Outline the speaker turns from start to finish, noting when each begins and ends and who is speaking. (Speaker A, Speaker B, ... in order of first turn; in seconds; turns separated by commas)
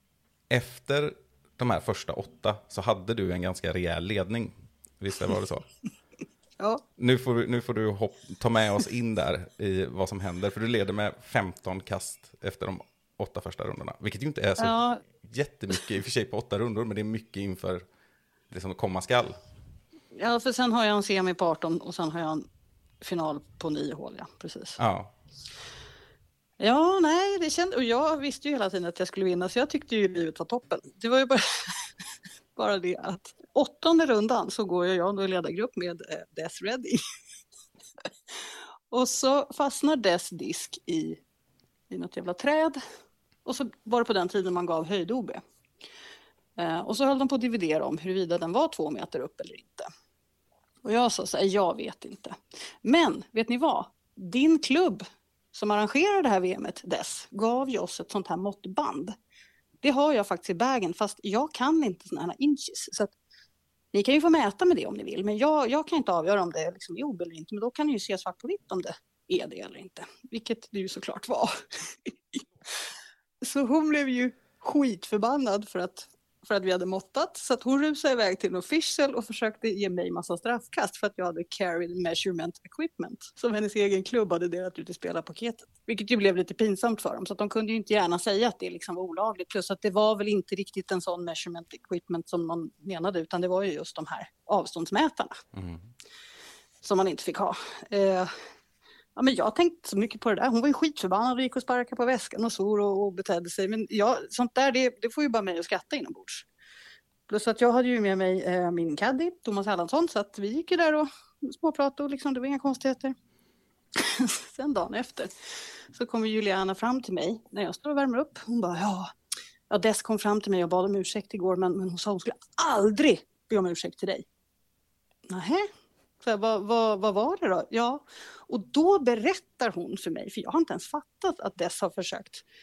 Speaker A: 0.5-5.7, Speaker A: 7.0-17.8, Speaker B: 14.6-15.0, Speaker A: 18.5-19.4, Speaker B: 20.1-22.5, Speaker B: 23.0-24.8, Speaker A: 24.8-25.1, Speaker B: 26.6-31.9, Speaker B: 32.5-37.0, Speaker B: 38.9-41.2, Speaker B: 41.9-42.8, Speaker B: 43.5-45.4, Speaker B: 46.6-49.9, Speaker B: 50.9-59.1, Speaker B: 59.8-63.1, Speaker B: 63.9-72.4, Speaker B: 73.4-95.4, Speaker A: 95.5-95.8, Speaker B: 96.8-98.3, Speaker B: 99.2-106.5, Speaker B: 107.3-113.2, Speaker B: 114.0-115.3, Speaker B: 115.9-119.1, Speaker B: 119.7-124.2, Speaker B: 125.3-125.7, Speaker B: 126.2-132.4